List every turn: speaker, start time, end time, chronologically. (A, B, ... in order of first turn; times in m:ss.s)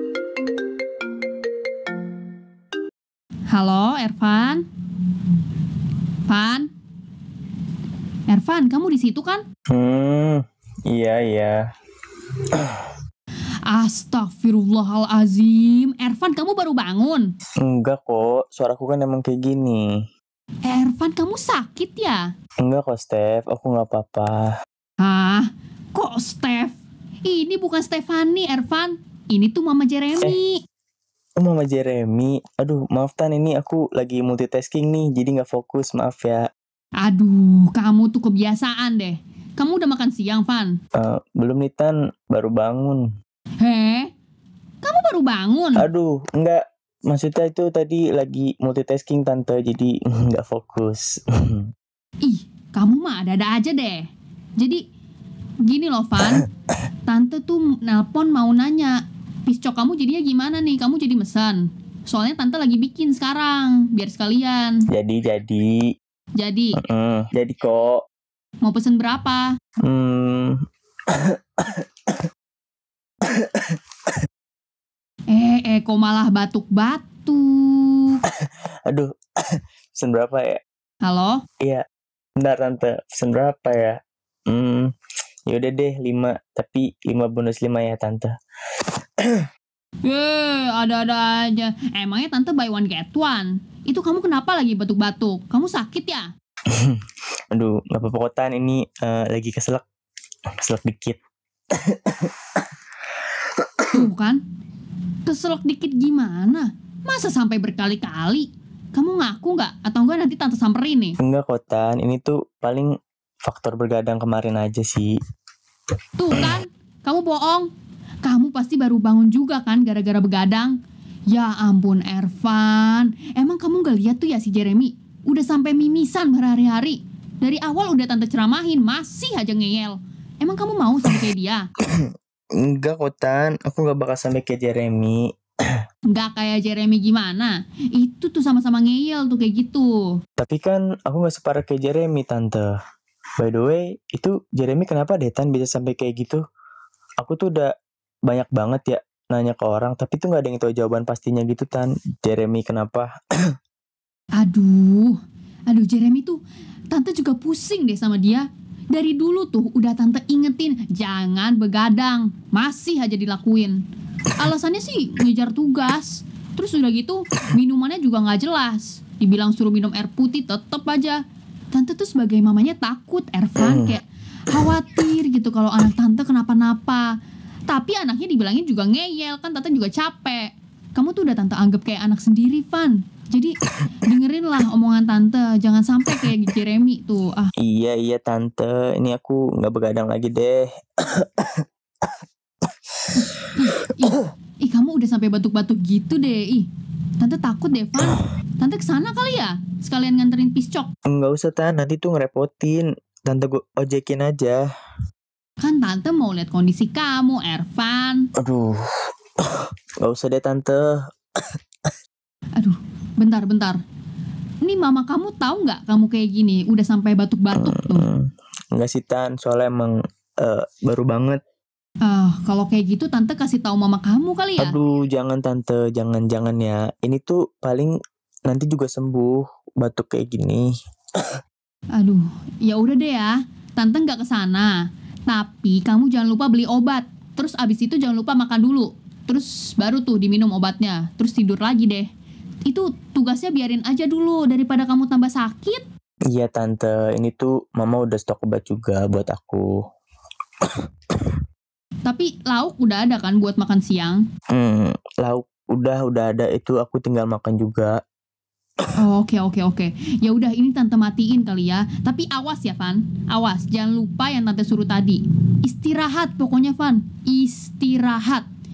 0:03.5-0:04.6 A
0:06.3-0:06.7 A
0:08.3-0:09.4 A
0:09.7-0:11.7 B
0:12.3-0:13.0 B
0:13.7-0:17.3 A
0:17.6-0:20.0 B
0:20.6-0:22.2 A
0:22.6-0:24.5 B
0:25.0-0:30.6 A
0:31.4-0:36.4 B
0:37.0-0:40.8 A
0:41.0-0:43.0 B
0:43.6-0:44.1 A
0:44.8-0:45.8 A
0:45.8-0:51.7 B
0:52.2-0:54.8 A
0:55.6-0:56.5 A
0:57.1-1:04.9 A
1:04.9-1:05.8 B
1:06.4-1:06.8 A
1:06.8-1:08.0 B
1:08.6-1:09.5 A
1:09.8-1:12.3 B
1:13.2-1:14.2 B
1:15.3-1:18.2 A
1:18.3-1:20.6 B
1:21.0-1:21.4 A
1:22.4-1:24.0 B
1:24.5-1:24.9 B
1:25.5-1:29.5 B
1:30.0-1:36.3 A
1:36.7-1:39.8 B
1:40.6-1:41.2 B
1:41.7-1:44.1 B
1:43.9-1:44.4 A
1:45.2-1:51.2 A
1:51.2-1:52.9 B
1:53.4-1:55.1 B
1:56.2-1:57.7 A
1:58.2-2:00.8 A
2:01.3-2:11.7 A
2:11.9-2:15.2 B
2:16.1-2:20.1 A
2:20.4-2:22.8 B
2:23.4-2:26.4 B
2:27.2-2:27.7 B
2:28.3-2:33.1 B
2:34.4-2:43.8 A
2:44.4-2:51.2 A
2:51.7-2:57.1 A
2:53.6-2:54.0 B
2:57.7-3:07.5 A
3:07.6-3:12.2 B
3:12.9-3:13.9 B
3:13.1-3:16.7 A
3:17.2-3:20.9 A
3:21.1-3:24.6 B
3:25.6-3:28.3 A
3:28.4-3:28.9 B
3:29.4-3:31.0 B
3:32.6-3:33.8 A
3:34.6-3:38.1 A
3:37.6-3:41.4 B
3:42.0-3:44.8 A
3:44.6-3:47.9 B
3:48.5-3:51.2 B
3:51.9-3:54.7 A
3:55.3-4:02.1 A
4:02.6-4:05.9 A
4:06.3-4:09.7 B
4:10.6-4:11.4 B
4:12.0-4:14.2 A
4:14.5-4:17.9 B
4:19.0-4:28.4 A